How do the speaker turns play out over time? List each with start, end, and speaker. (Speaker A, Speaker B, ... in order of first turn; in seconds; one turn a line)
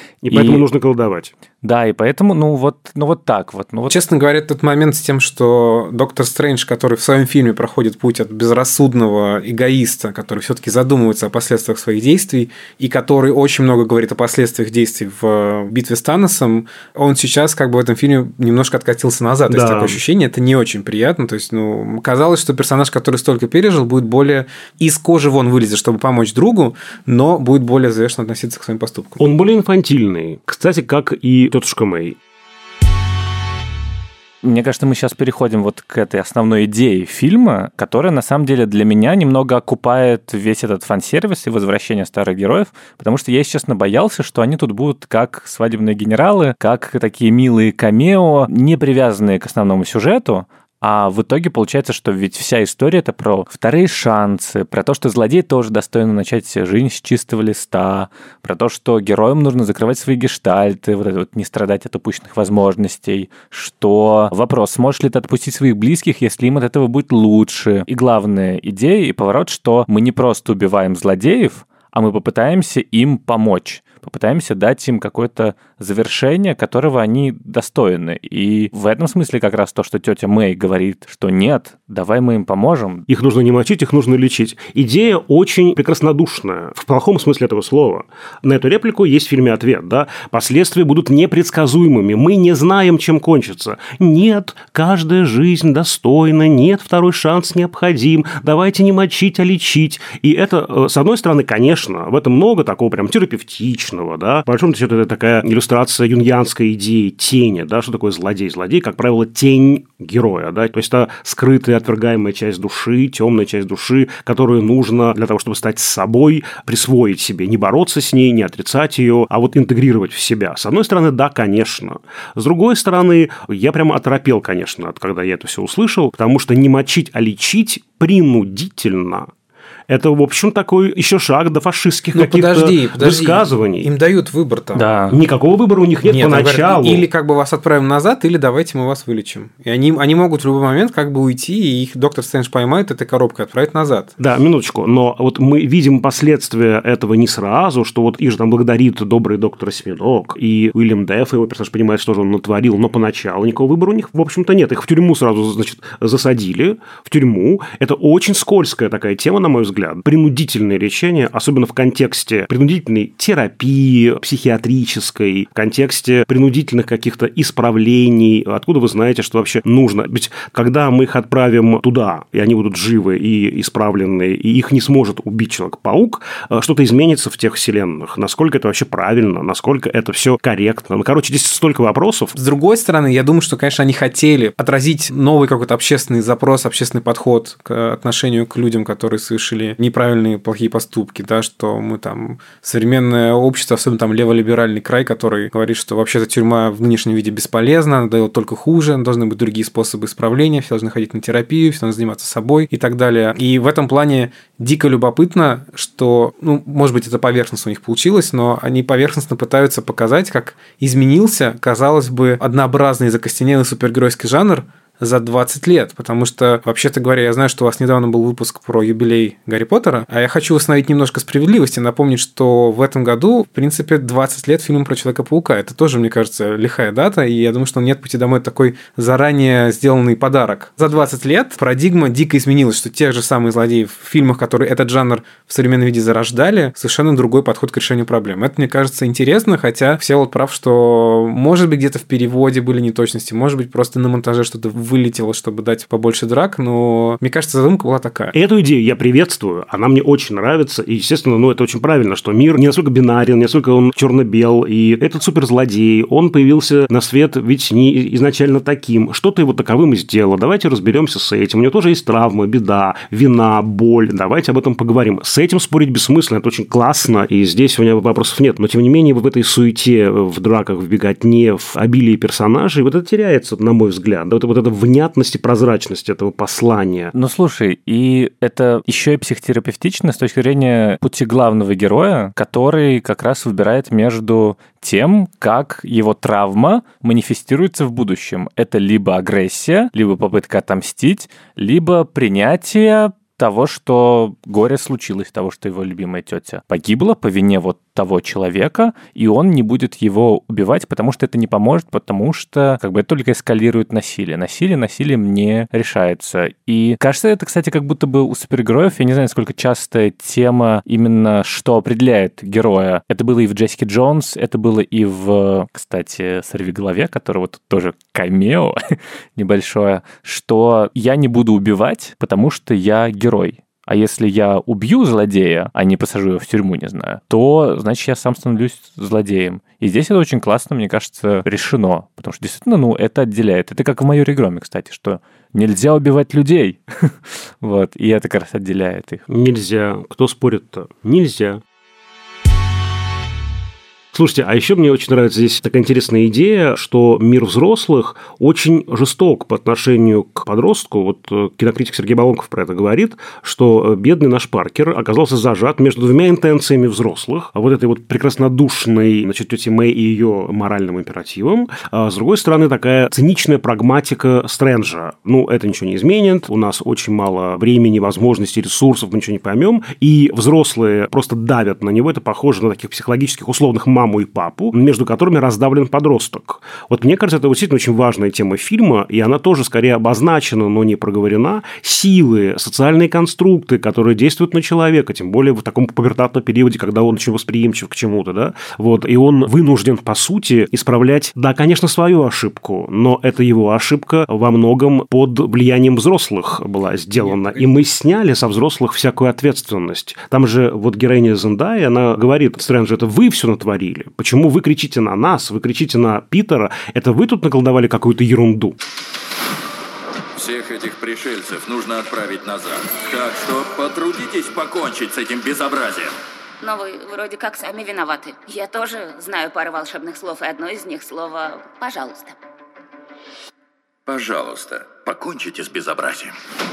Speaker A: 0.2-1.3
Speaker B: 0.3-0.6
Speaker B: 1.6-4.0
Speaker C: 3.9-29.2
Speaker A: 19.5-20.0
Speaker A: 29.2-32.2
Speaker B: 34.4-83.0
Speaker A: 83.1-129.3
Speaker A: 129.9-133.9
Speaker C: 132.1-134.9
Speaker B: 134.8-135.2
Speaker A: 135.1-137.1
Speaker C: 136.1-144.1
Speaker A: 144.2-182.3
Speaker C: 182.3-248.3
Speaker A: 248.3-277.1
Speaker B: 277.1-339.2
Speaker A: 339.3-341.6
Speaker A: 344.1-408.8
Speaker D: 410.3-416.1
Speaker E: 416.6-422.4
Speaker D: 424.1-426.3